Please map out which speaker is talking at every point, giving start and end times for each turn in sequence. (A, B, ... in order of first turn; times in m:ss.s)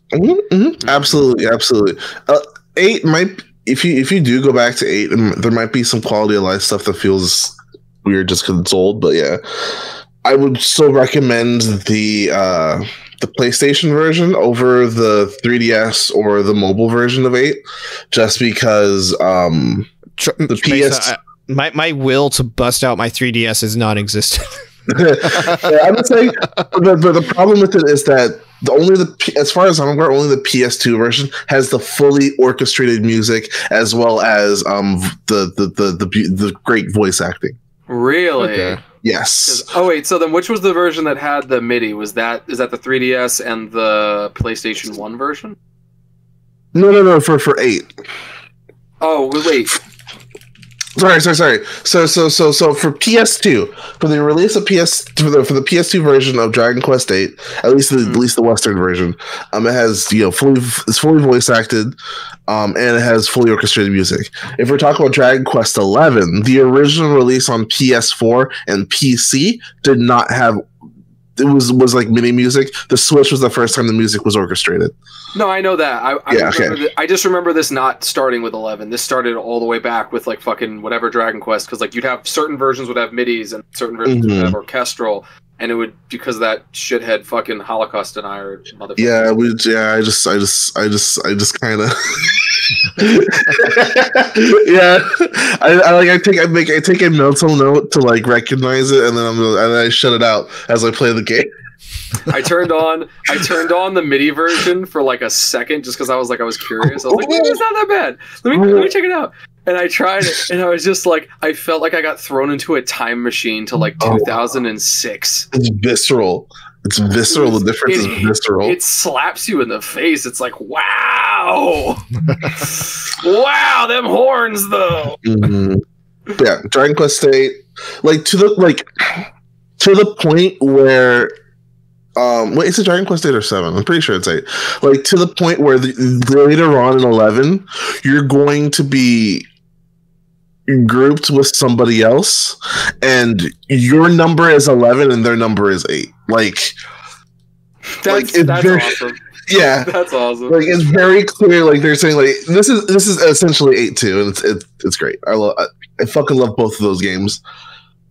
0:00.1-0:19.9 A
0:00.8-0:01.2 B
0:20.2-0:24.6 C
0:20.5-0:21.1 A
0:24.9-0:37.6 A
0:25.2-0:25.7 C
0:37.9-0:38.8 B
0:38.4-0:38.8 C
0:39.0-0:39.6 A
0:39.4-0:45.6 B
0:46.7-0:47.9 A
0:49.0-0:49.8 B
0:51.0-1:02.0 A
0:58.0-0:58.2 B
1:02.5-1:10.6 A
1:11.4-1:14.9 A
1:15.3-1:29.4 B
1:16.3-1:16.8 A
1:24.0-1:24.6 A
1:29.0-1:41.5 A
1:42.3-1:55.5 B
1:46.8-1:47.6 A
1:48.5-1:48.9 A
1:54.0-1:54.4 A
1:55.5-1:58.8 A
1:57.2-2:05.2 B
2:05.2-2:05.8 A
2:06.4-2:09.3 A
2:09.8-2:11.3 A
2:12.2-2:19.4 A
2:20.7-2:26.8 A
2:28.0-2:30.6 B
2:28.0-2:29.9 A
2:30.5-2:37.4 A